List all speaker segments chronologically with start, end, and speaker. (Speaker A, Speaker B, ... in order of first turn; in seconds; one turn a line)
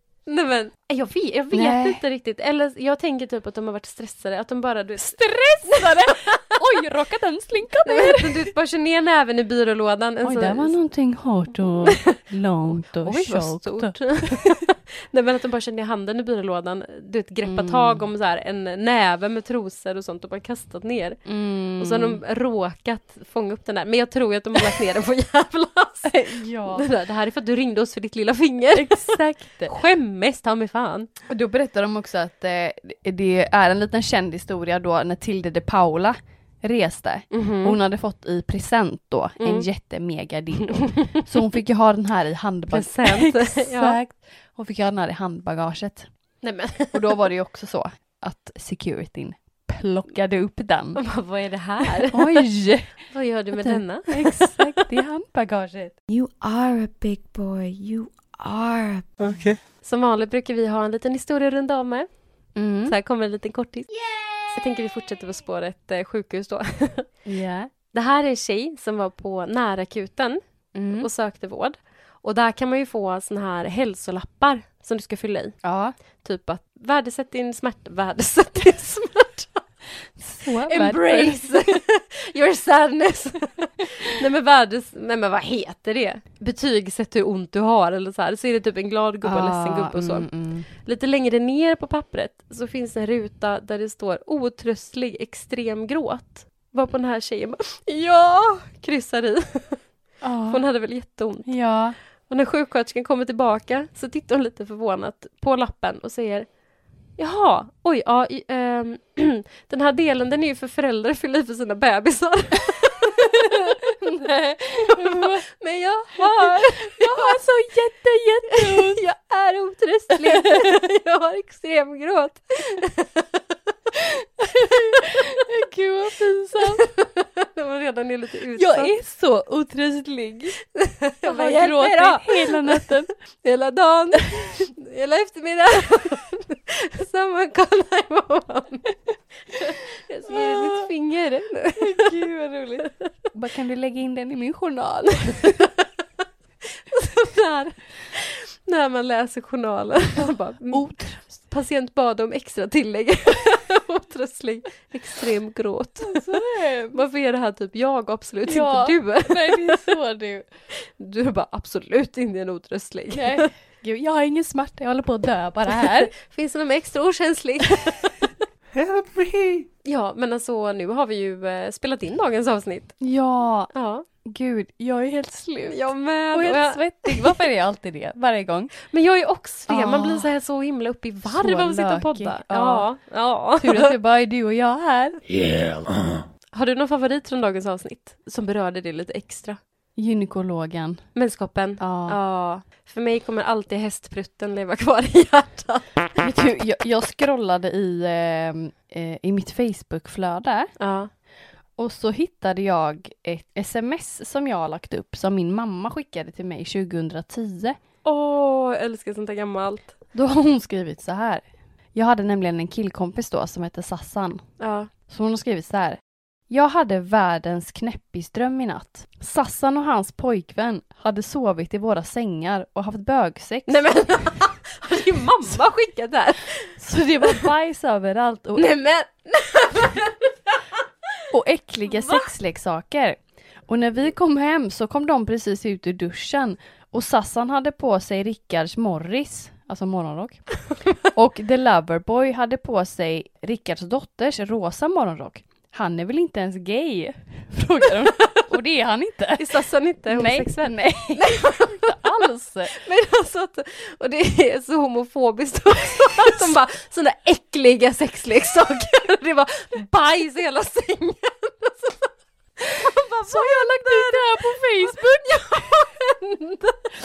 Speaker A: 0.3-6.5
Speaker B: 1.5-2.0
Speaker B: 5.0-8.4
Speaker A: 7.8-10.8
Speaker B: 10.2-14.6
Speaker A: 11.8-12.2
Speaker A: 12.9-21.2
Speaker B: 17.4-18.1
Speaker B: 21.2-22.2
Speaker A: 21.8-31.1
Speaker B: 26.1-26.8
Speaker B: 28.7-29.7
Speaker B: 31.2-46.1
Speaker A: 37.3-37.8
Speaker A: 39.4-39.6
Speaker A: 42.7-44.0
Speaker A: 46.4-47.3
Speaker B: 46.9-51.0
Speaker A: 50.9-52.5
Speaker B: 52.0-56.0
Speaker A: 53.1-54.8
Speaker C: 56.1-59.4
Speaker A: 59.8-62.1
Speaker B: 62.5-62.9
Speaker A: 62.9-63.9
Speaker A: 64.5-67.1
Speaker B: 67.2-67.7
Speaker A: 67.9-70.4
Speaker B: 70.7-71.1
Speaker A: 70.9-75.6
Speaker B: 75.6-75.9
Speaker A: 76.2-79.6
Speaker B: 80.2-81.8
Speaker A: 80.6-90.3
Speaker B: 89.2-90.7
Speaker A: 90.8-99.8
Speaker B: 100.2-100.6
Speaker A: 100.5-101.5
Speaker B: 101.5-102.0
Speaker A: 102.3-106.5
Speaker A: 107.2-114.0
Speaker B: 114.0-115.4
Speaker A: 114.8-117.3
Speaker B: 116.1-119.0
Speaker A: 118.5-123.2
Speaker B: 120.2-120.7
Speaker B: 124.0-126.9
Speaker A: 124.9-125.3
Speaker A: 126.8-128.9
Speaker B: 128.6-130.5
Speaker A: 130.8-138.9
Speaker B: 131.2-133.1
Speaker A: 139.6-142.3
Speaker B: 140.3-140.8
Speaker B: 141.8-145.5
Speaker A: 142.8-143.1
Speaker A: 145.2-145.8
Speaker A: 146.9-156.2
Speaker B: 150.7-151.3
Speaker B: 156.0-157.0
Speaker A: 156.9-159.9
Speaker B: 158.4-160.4
Speaker A: 160.9-163.5
Speaker B: 163.1-166.1
Speaker A: 165.8-168.1
Speaker A: 169.8-172.9
Speaker B: 173.0-173.7
Speaker A: 173.7-174.0
Speaker B: 174.2-178.7
Speaker A: 175.7-177.4
Speaker A: 178.9-183.9
Speaker B: 179.7-180.3
Speaker B: 181.2-182.9
Speaker B: 183.6-185.2
Speaker A: 186.5-189.6
Speaker B: 189.9-191.1
Speaker A: 191.1-196.1
Speaker B: 191.8-192.2
Speaker B: 196.2-200.7
Speaker A: 200.8-201.1
Speaker B: 201.8-207.8
Speaker A: 208.0-209.9
Speaker B: 210.1-214.4
Speaker A: 214.6-214.9
Speaker B: 215.1-223.9
Speaker A: 223.7-226.7
Speaker B: 226.8-228.7
Speaker A: 228.6-230.7
Speaker B: 231.3-240.4
Speaker A: 231.9-232.2
Speaker B: 241.1-252.7
Speaker A: 249.4-252.0
Speaker A: 252.7-266.9
Speaker B: 263.2-265.7